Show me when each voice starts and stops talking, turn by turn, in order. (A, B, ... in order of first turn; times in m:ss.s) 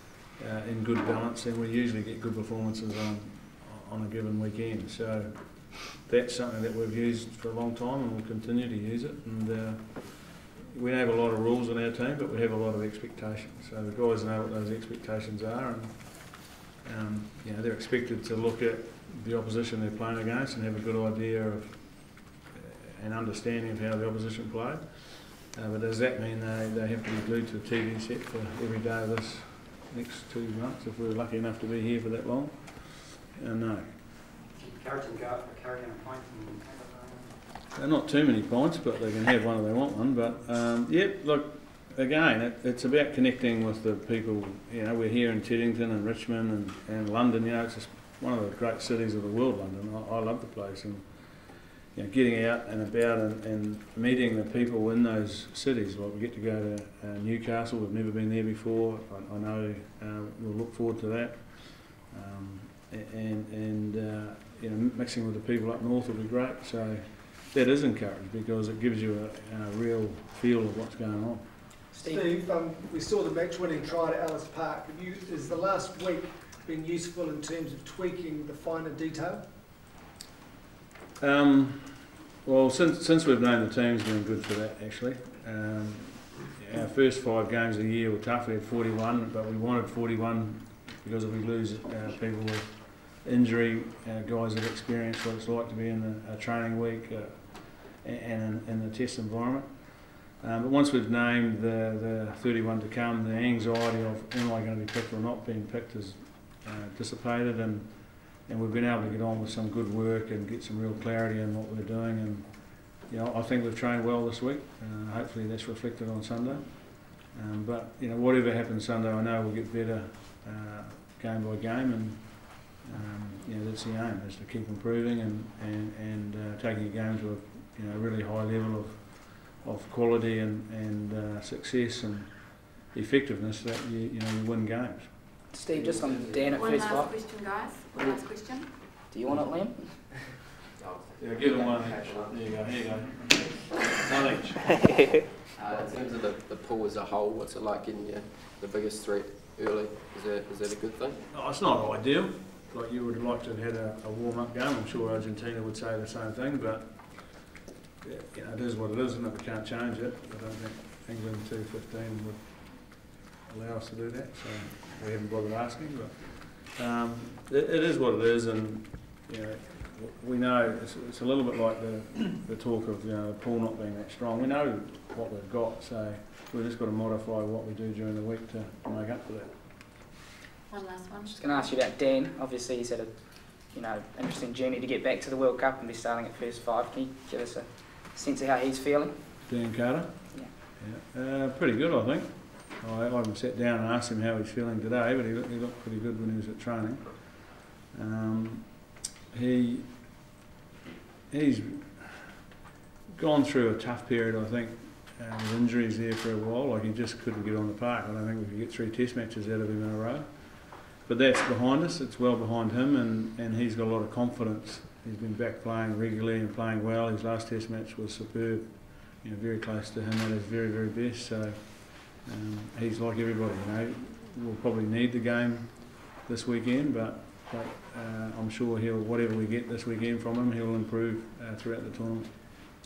0:00.4-0:34.0 A
0:34.5-0:37.3 B
0:37.8-1:11.5 A
1:11.9-1:19.4 C
1:12.0-1:12.4 D
1:21.2-2:15.2 A
2:15.5-2:17.1 D
2:15.7-2:16.6 E
2:16.5-2:19.0 F
2:19.1-2:20.2 D
2:20.8-2:22.3 E
2:21.2-2:24.9 A
2:21.5-2:21.9 D
2:25.6-2:31.2 E
2:31.3-2:59.6 A
3:00.7-3:01.8 F
3:01.3-3:09.6 D
3:09.5-3:20.2 A
3:21.3-3:22.3 A
3:23.1-3:52.4 A